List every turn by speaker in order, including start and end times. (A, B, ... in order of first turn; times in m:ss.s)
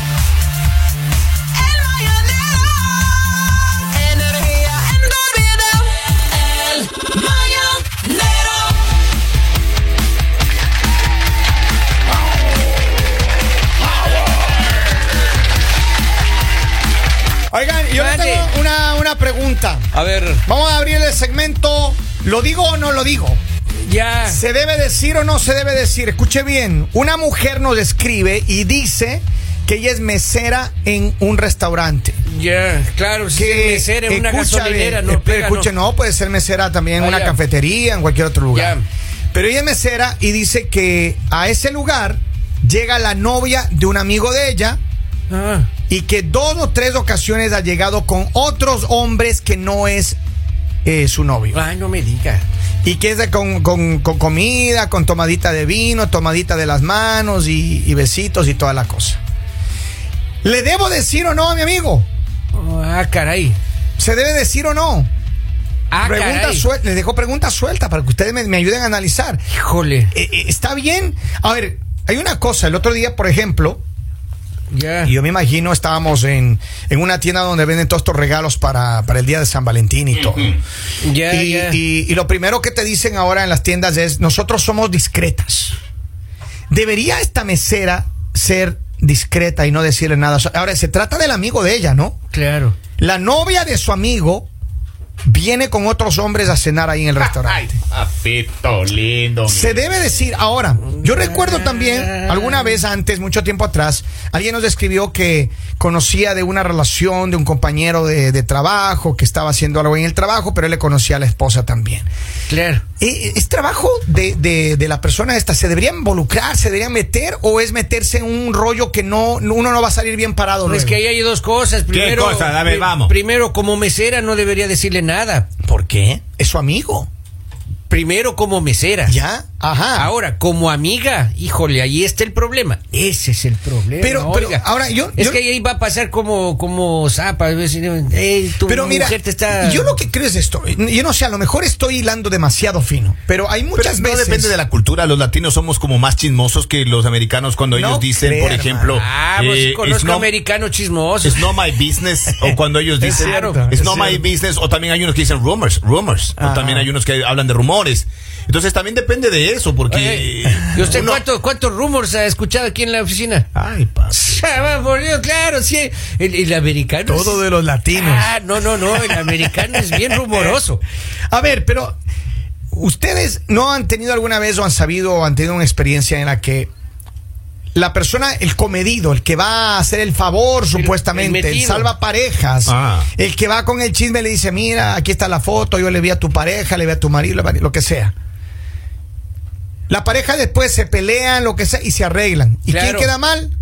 0:01.6-0:02.9 A
0:03.9-0:08.7 A
0:17.5-0:19.9 B
0:17.9-0:18.5 A
0:19.9-0:20.4 A
0:20.5-0:23.4 B
0:23.8-0:24.4 A
0:24.3-0:32.2 B
0:32.3-0:35.7 A
0:33.4-0:38.8 B
0:37.0-0:37.4 A
0:38.5-0:38.8 A
0:39.3-0:44.8 B
0:45.3-0:45.7 A
0:45.9-0:50.2 B
0:50.8-0:51.6 B
0:51.5-0:52.4 A
0:52.8-0:59.2 B
1:00.4-1:02.1 B
1:02.5-1:03.6 A
1:04.0-1:05.1 B
1:05.9-1:06.7 A
1:06.0-1:09.4 B
1:09.5-1:10.1 A
1:10.1-1:13.8 B
1:14.7-1:15.1 A
1:15.1-1:20.6 B
1:21.0-1:21.8 A
1:21.3-1:25.8 B
1:26.7-1:32.2 B
1:32.3-1:32.8 A
1:33.0-1:34.5 B
1:35.3-1:37.8 B
1:37.2-1:40.1 C
1:39.5-1:52.1 B
1:40.9-1:42.8 A
1:52.5-1:52.8 A
1:53.0-2:01.0 B
2:00.7-2:05.5 A
2:01.9-2:03.1 C
2:05.6-2:07.1 B
2:07.9-2:09.2 A
2:09.1-2:10.1 B
2:10.0-2:14.6 A
2:14.0-2:15.4 B
2:15.2-2:20.0 A
2:18.7-2:24.5 B
2:23.7-2:30.3 C
2:27.7-2:29.0 B
2:28.9-2:31.4 A
2:31.2-2:41.2 C
2:32.4-2:34.3 B
2:33.1-2:33.6 A
2:36.4-2:36.9 B
2:39.9-2:43.5 A
2:43.6-2:44.4 C
2:44.1-2:50.8 A
2:47.1-2:48.3 B
2:50.1-2:50.6 B
2:51.3-2:52.0 B
2:52.7-2:56.7 B
2:57.8-3:08.1 B
3:00.7-3:01.9 A
3:02.6-3:03.1 C
3:09.9-3:13.5 B
3:12.7-3:13.1 A